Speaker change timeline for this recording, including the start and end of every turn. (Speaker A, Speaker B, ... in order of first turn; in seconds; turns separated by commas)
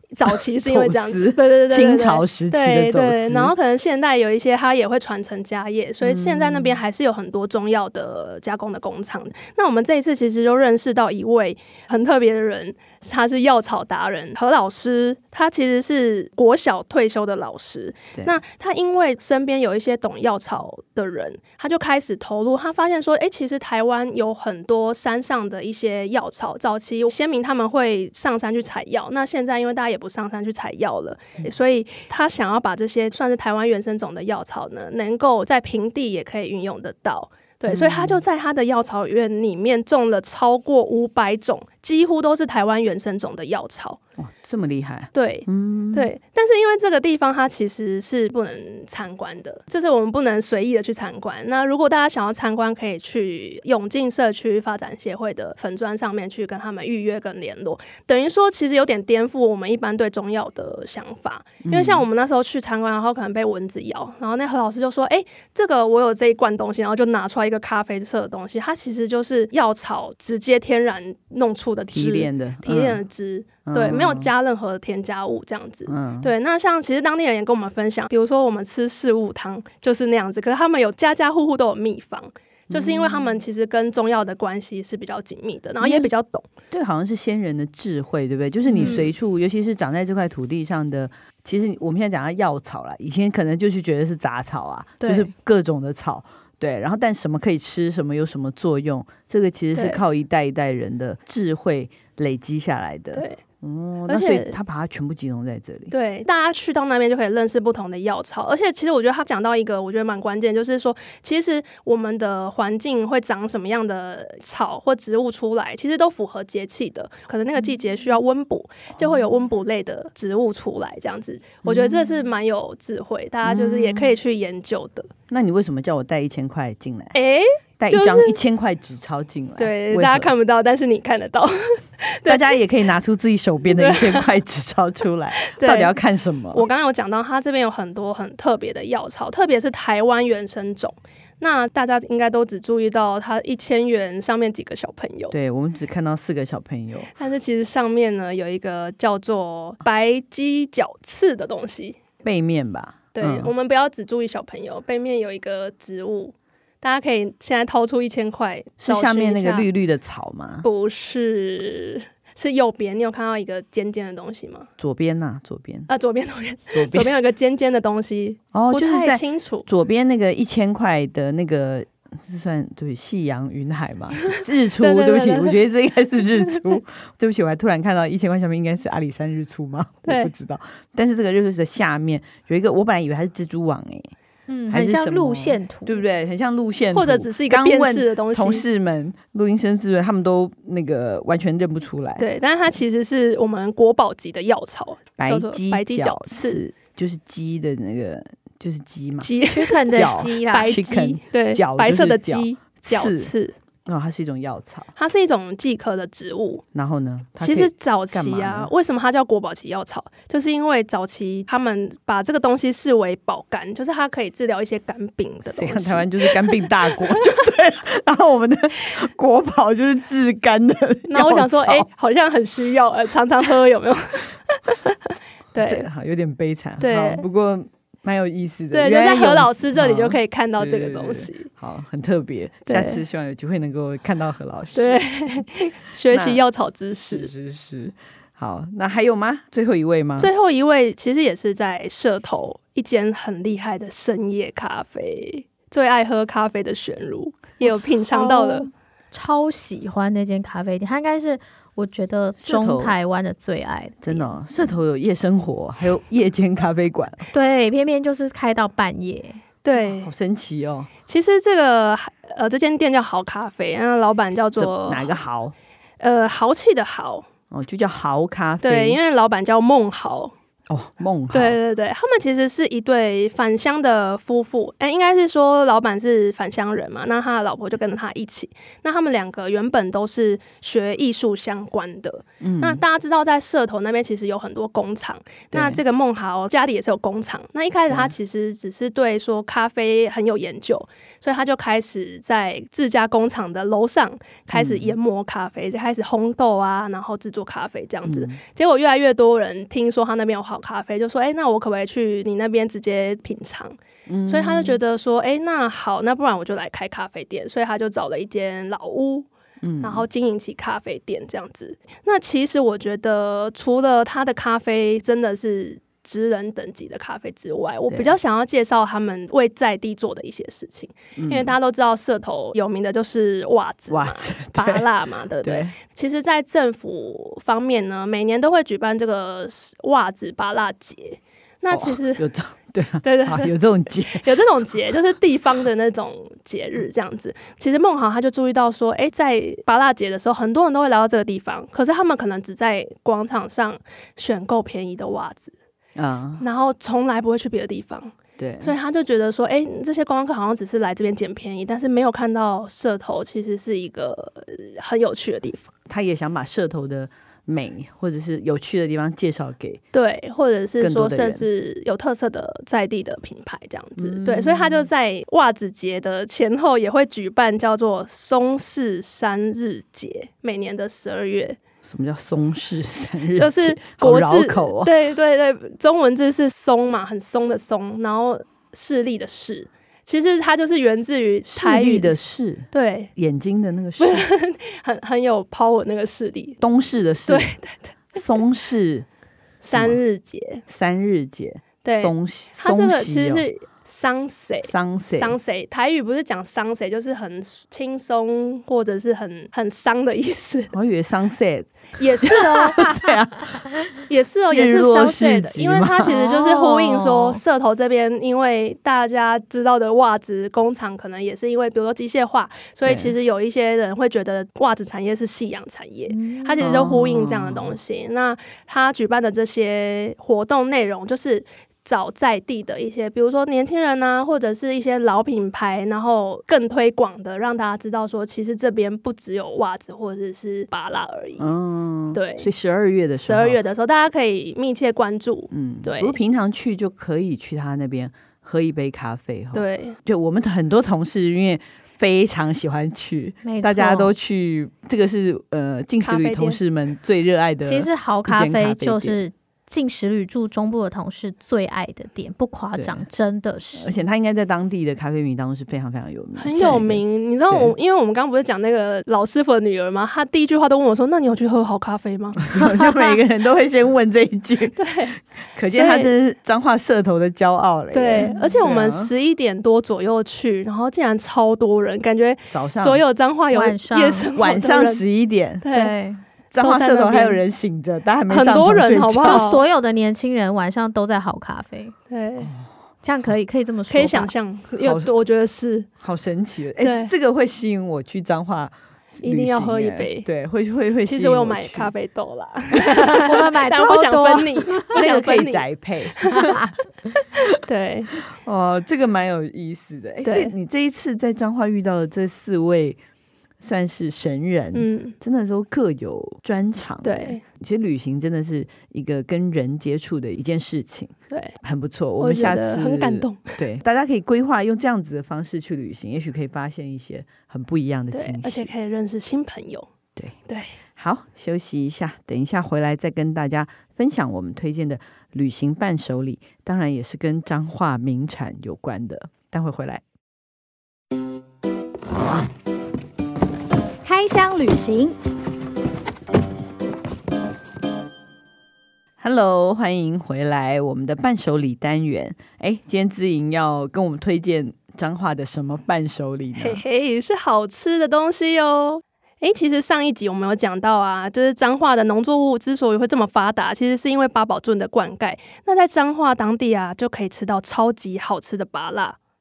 Speaker A: 0.1-44.0, Speaker B: 0.2-3.5, Speaker B: 6.0-6.8, Speaker B: 37.7-38.2, Speaker B: 44.2-46.1, Speaker A: 45.1-86.5, Speaker B: 61.6-62.0, Speaker B: 71.9-73.0, Speaker B: 73.7-74.3, Speaker B: 75.9-76.3, Speaker B: 82.7-83.2, Speaker B: 85.8-86.1, Speaker B: 86.7-105.9, Speaker A: 88.8-89.1, Speaker A: 99.8-100.0, Speaker A: 103.1-103.4, Speaker A: 104.1-104.5, Speaker A: 105.9-125.1, Speaker B: 121.7-122.0, Speaker B: 123.5-124.1, Speaker B: 125.3-127.2, Speaker A: 127.1-128.4, Speaker B: 127.8-130.3, Speaker A: 129.6-132.5, Speaker B: 132.3-136.7, Speaker A: 133.7-134.3, Speaker A: 135.4-136.0, Speaker A: 136.5-145.3, Speaker B: 145.3-147.1, Speaker A: 147.2-152.0, Speaker B: 152.2-153.5, Speaker A: 153.1-159.7, Speaker B: 158.8-160.7, Speaker A: 160.6-164.7, Speaker B: 164.8-165.9, Speaker A: 165.9-169.7, Speaker B: 166.7-167.1, Speaker B: 168.5-184.1, Speaker A: 174.3-175.6, Speaker A: 176.3-176.8, Speaker A: 180.1-180.3, Speaker C: 184.5-186.0, Speaker B: 184.7-192.3, Speaker A: 186.9-188.7, Speaker A: 192.2-196.6, Speaker B: 195.2-199.3, Speaker A: 199.2-203.6, Speaker C: 199.5-200.8, Speaker B: 199.9-203.3, Speaker B: 203.9-204.9, Speaker A: 205.0-206.7, Speaker B: 206.7-208.7, Speaker A: 207.4-217.3, Speaker B: 215.5-221.9, Speaker A: 221.1-225.9, Speaker B: 225.6-235.0, Speaker A: 226.8-227.2, Speaker A: 228.7-231.5, Speaker A: 232.7-233.0, Speaker A: 234.8-237.3, Speaker B: 236.1-236.4, Speaker B: 237.1-240.3, Speaker A: 240.2-248.7, Speaker C: 247.6-254.3, Speaker B: 252.4-253.0, Speaker B: 254.0-257.3, Speaker C: 257.3-259.4, Speaker A: 259.6-260.1, Speaker B: 259.9-260.9, Speaker A: 261.1-265.2, Speaker B: 264.6-265.6, Speaker A: 266.0-267.3, Speaker B: 267.5-269.0, Speaker A: 268.6-270.3, Speaker B: 270.7-271.6, Speaker A: 271.3-303.8, Speaker B: 282.4-282.8, Speaker B: 285.5-285.8, Speaker B: 287.9-288.1, Speaker B: 294.5-295.0, Speaker B: 298.1-298.4, Speaker B: 304.1-304.8, Speaker A: 304.3-309.3, Speaker B: 309.6-310.1, Speaker A: 309.8-332.2, Speaker B: 317.9-318.1, Speaker B: 321.2-321.6, Speaker B: 323.9-324.9, Speaker B: 325.4-325.7, Speaker B: 331.7-334.3, Speaker A: 333.0-333.5, Speaker A: 334.0-345.6, Speaker B: 346.0-346.4, Speaker A: 346.4-355.7, Speaker B: 348.4-348.8, Speaker B: 355.9-359.8, Speaker A: 359.9-371.6, Speaker B: 360.8-361.5, Speaker B: 364.0-364.9, Speaker B: 371.8-374.9, Speaker A: 373.3-382.1, Speaker B: 381.5-384.3, Speaker A: 382.7-383.1, Speaker A: 384.0-386.6, Speaker B: 386.6-387.5, Speaker A: 387.3-388.2, Speaker B: 388.1-389.1, Speaker A: 389.6-390.6, Speaker B: 389.7-390.0, Speaker B: 390.7-393.5, Speaker A: 391.8-400.8, Speaker B: 394.6-395.4, Speaker B: 400.7-403.9, Speaker A: 402.0-403.0, Speaker A: 404.1-431.5, Speaker B: 404.5-407.0, Speaker B: 412.9-413.1, Speaker C: 416.1-416.6, Speaker B: 416.6-417.8, Speaker B: 431.4-433.6, Speaker A: 432.1-432.5, Speaker A: 433.2-436.2, Speaker B: 435.5-449.2, Speaker A: 439.5-440.0, Speaker C: 443.4-444.1, Speaker A: 446.0-446.6, Speaker C: 447.6-453.9, Speaker B: 453.8-457.7, Speaker A: 456.4-463.2, Speaker B: 462.4-464.9, Speaker A: 464.8-465.2, Speaker B: 465.5-469.1, Speaker A: 465.7-466.1, Speaker A: 467.9-475.0, Speaker C: 468.2-468.6, Speaker B: 472.5-473.0, Speaker C: 473.5-474.3, Speaker B: 474.4-475.6, Speaker A: 475.6-475.9, Speaker C: 475.7-476.2, Speaker B: 476.5-479.5, Speaker A: 476.6-477.4, Speaker A: 478.3-479.6, Speaker C: 479.2-481.9, Speaker A: 482.1-482.5, Speaker B: 482.4-482.7, Speaker C: 483.0-484.3, Speaker A: 483.9-485.9, Speaker B: 484.8-485.1, Speaker B: 486.0-491.9, Speaker A: 486.8-487.1, Speaker A: 489.2-490.3, Speaker A: 491.1-496.5, Speaker B: 492.9-493.2, Speaker C: 493.2-494.9, Speaker B: 494.9-496.6, Speaker A: 497.5-498.1, Speaker B: 498.3-503.0, Speaker A: 500.2-500.5, Speaker B: 503.6-518.7, Speaker A: 504.7-505.2, Speaker A: 507.0-507.4, Speaker A: 511.3-511.6, Speaker A: 512.2-513.5, Speaker A: 518.1-519.9, Speaker A: 520.5-520.8, Speaker B: 521.0-530.0, Speaker C: 534.0-535.2, Speaker B: 539.2-546.8, Speaker A: 546.6-559.2